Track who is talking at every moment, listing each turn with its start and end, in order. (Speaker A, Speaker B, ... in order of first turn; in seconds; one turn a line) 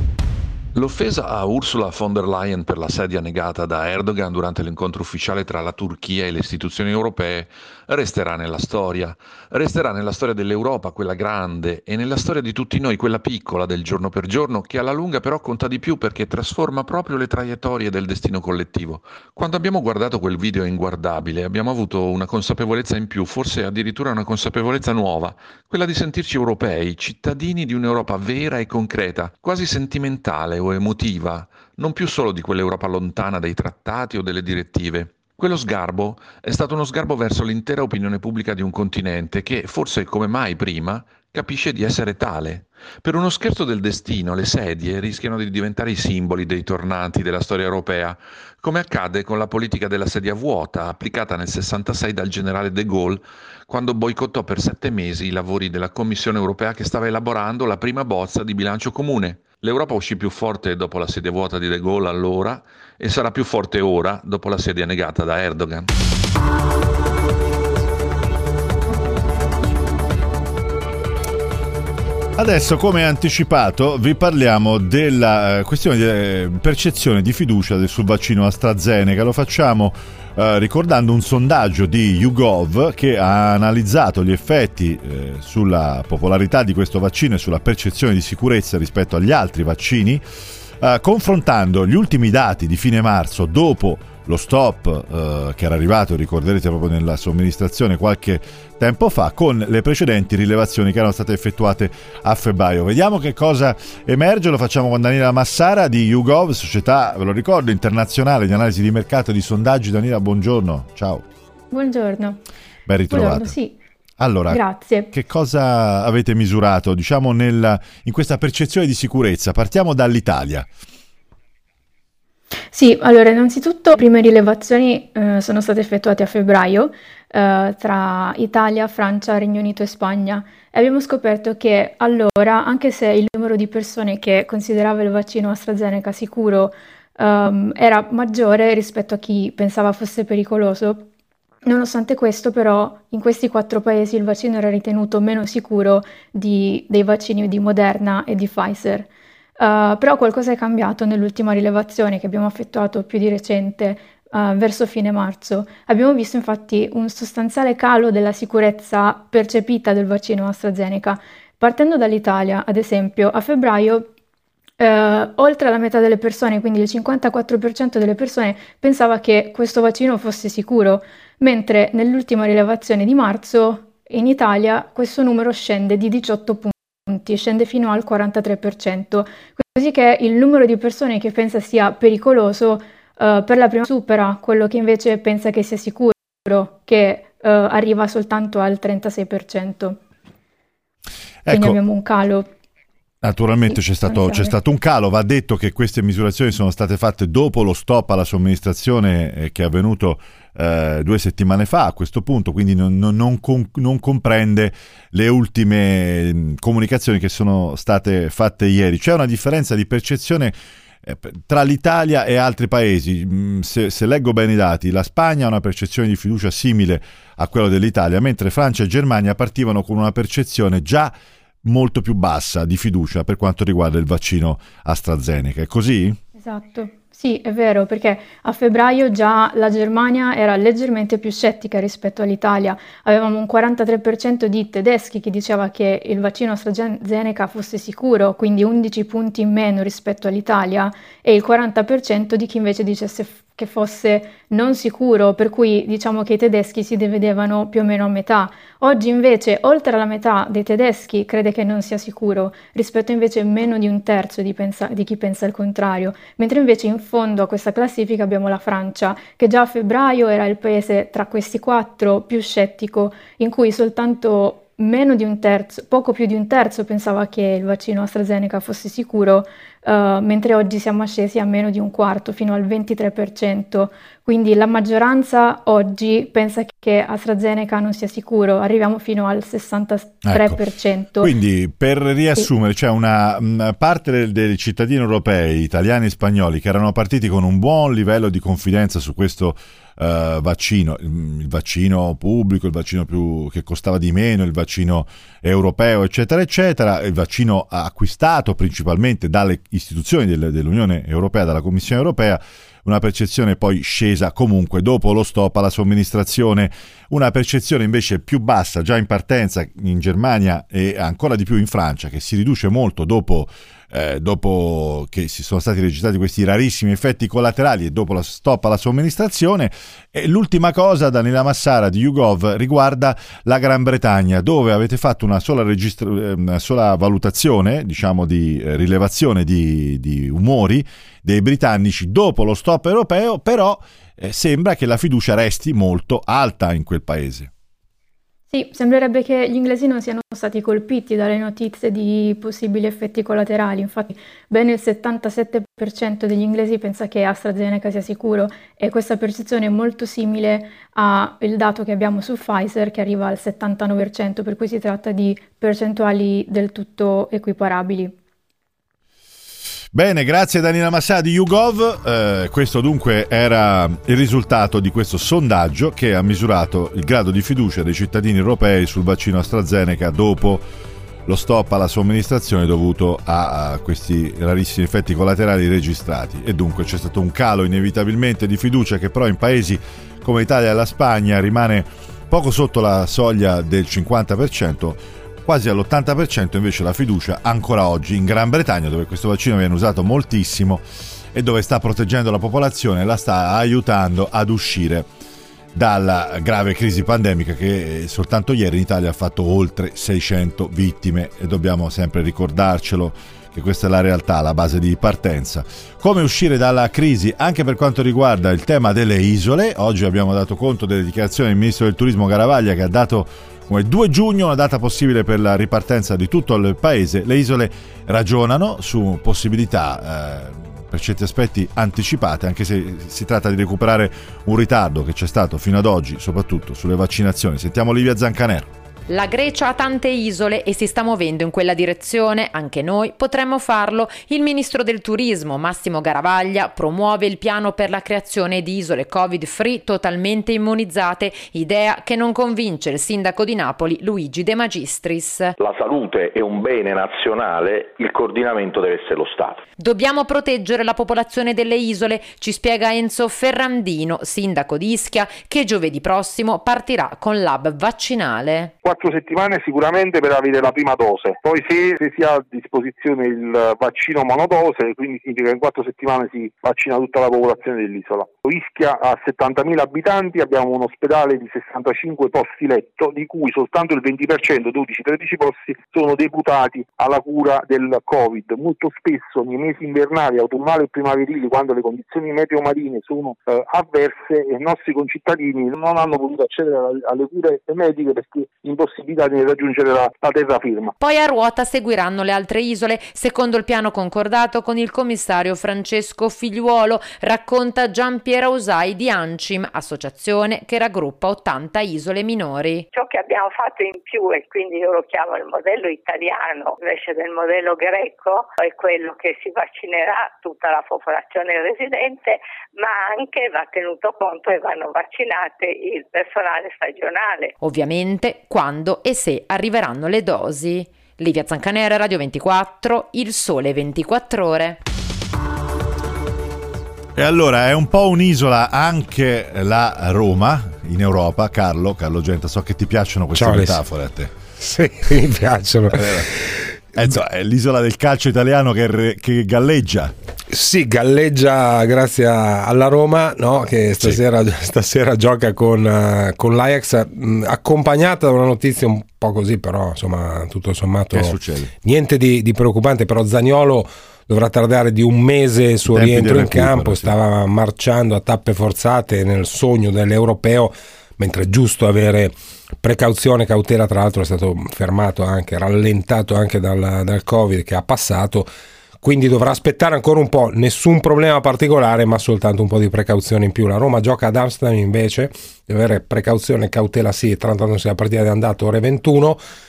Speaker A: 0.7-65.9
Speaker B: 72.4-90.2
Speaker B: 90.8-111.2
Speaker C: 111.7-112.4
Speaker B: 112.9-113.6
Speaker C: 113.1-113.8
Speaker B: 114.2-120.7
Speaker C: 114.5-115.1
Speaker C: 122.7-141.1
Speaker C: 141.7-164.1
Speaker C: 164.8-190.0
Speaker B: 191.5-191.8
Speaker C: 191.5-192.5
Speaker B: 193.2-226.2
Speaker C: 193.7-194.6
Speaker C: 226.4-281.3
Speaker B: 280.2-280.6
Speaker B: 281.2-337.5
Speaker C: 338.5-358.1
Speaker B: 359.9-370.7
Speaker B: 371.3-395.1
Speaker B: 395.7-428.7
Speaker D: 429.1-445.6
Speaker E: 445.7-449.6
Speaker D: 449.8-458.7
Speaker F: 458.8-490.9
Speaker D: 491.0-502.9
Speaker G: 502.9-517.5
Speaker D: 517.6-524.8
Speaker B: 527.2-534.3
Speaker H: 533.4-533.8
Speaker H: 534.6-537.2
Speaker B: 535.9-536.3
Speaker B: 537.0-540.1
Speaker H: 540.5-568.5
Speaker B: 551.1-551.7
Speaker B: 555.9-557.1
Speaker H: 569.0-579.4